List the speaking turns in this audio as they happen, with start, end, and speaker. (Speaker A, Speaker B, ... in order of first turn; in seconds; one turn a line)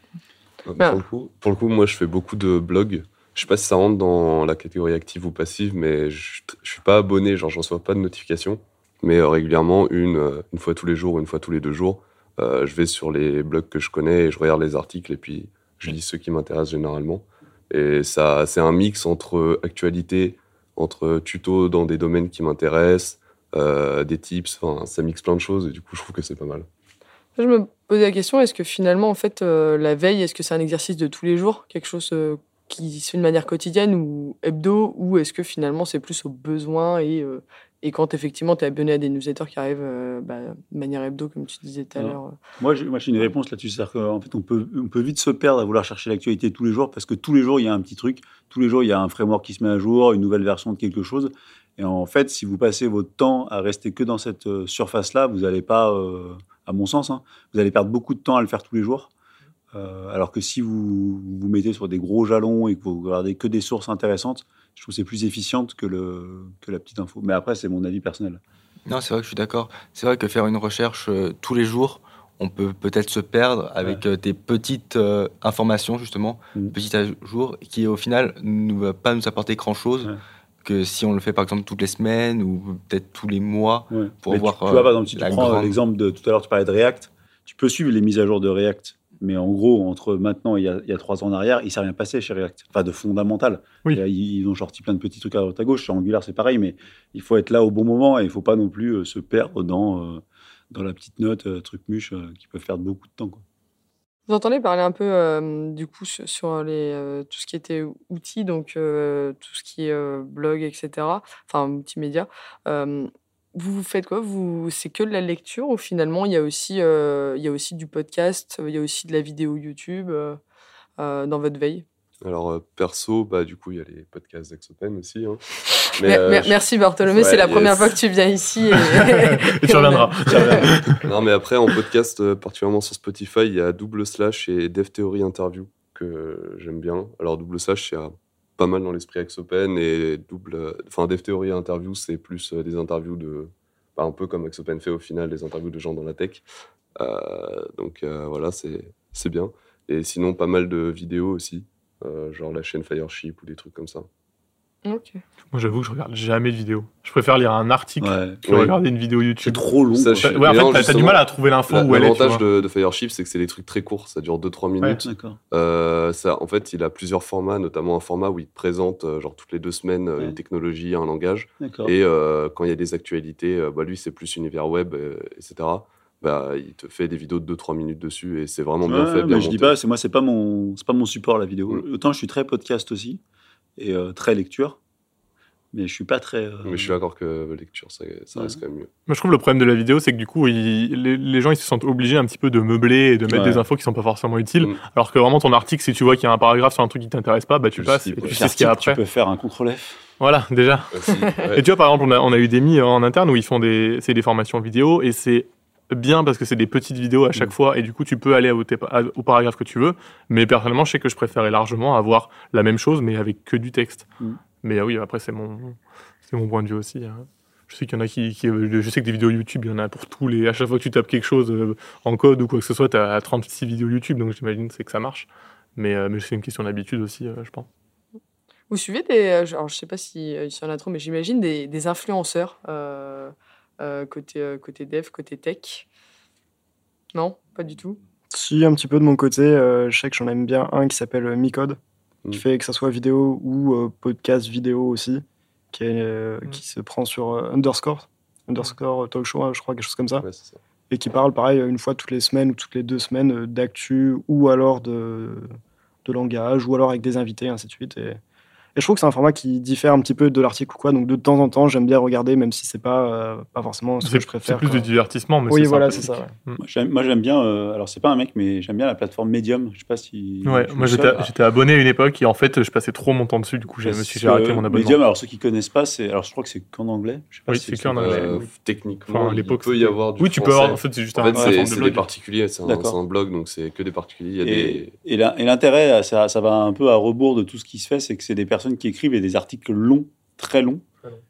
Speaker A: 0.7-26.7
Speaker B: 27.4-42.4
Speaker C: 42.0-59.1
Speaker C: 59.7-68.4
Speaker D: 68.9-80.1
Speaker D: 80.6-85.8
Speaker C: 83.9-103.4
Speaker B: 104.3-120.4
Speaker B: 121.0-121.8
Speaker A: 122.2-125.4
Speaker A: 125.9-128.0
Speaker B: 126.0-130.7
Speaker E: 129.0-131.1
Speaker A: 131.0-146.4
Speaker A: 147.0-154.1
Speaker B: 154.8-155.2
Speaker E: 155.5-159.7
Speaker C: 158.0-158.7
Speaker C: 159.4-160.9
Speaker A: 160.0-179.8
Speaker E: 160.2-162.4
Speaker C: 165.0-165.4
Speaker C: 171.6-171.9
Speaker C: 178.9-183.2
Speaker C: 183.8-184.8
Speaker C: 185.7-187.0
Speaker A: 186.7-188.9
Speaker E: 189.1-199.0
Speaker C: 193.3-193.6
Speaker A: 197.8-198.4
Speaker C: 198.2-200.0
Speaker E: 200.2-214.1
Speaker A: 200.9-201.7
Speaker E: 214.6-227.7
Speaker B: 228.7-235.9
Speaker B: 237.1-238.0
Speaker F: 238.3-241.8
Speaker F: 242.3-250.2
Speaker A: 250.2-250.6
Speaker F: 250.9-255.5
Speaker F: 256.1-258.2
Speaker F: 258.8-264.9
Speaker E: 264.0-266.6
Speaker F: 265.5-266.3
Speaker C: 266.6-271.3
Speaker E: 270.4-275.0
Speaker C: 273.8-278.4
Speaker E: 277.5-278.5
Speaker A: 278.0-284.9
Speaker E: 279.1-282.1
Speaker C: 281.3-281.8
Speaker C: 282.6-283.0
Speaker C: 284.4-290.9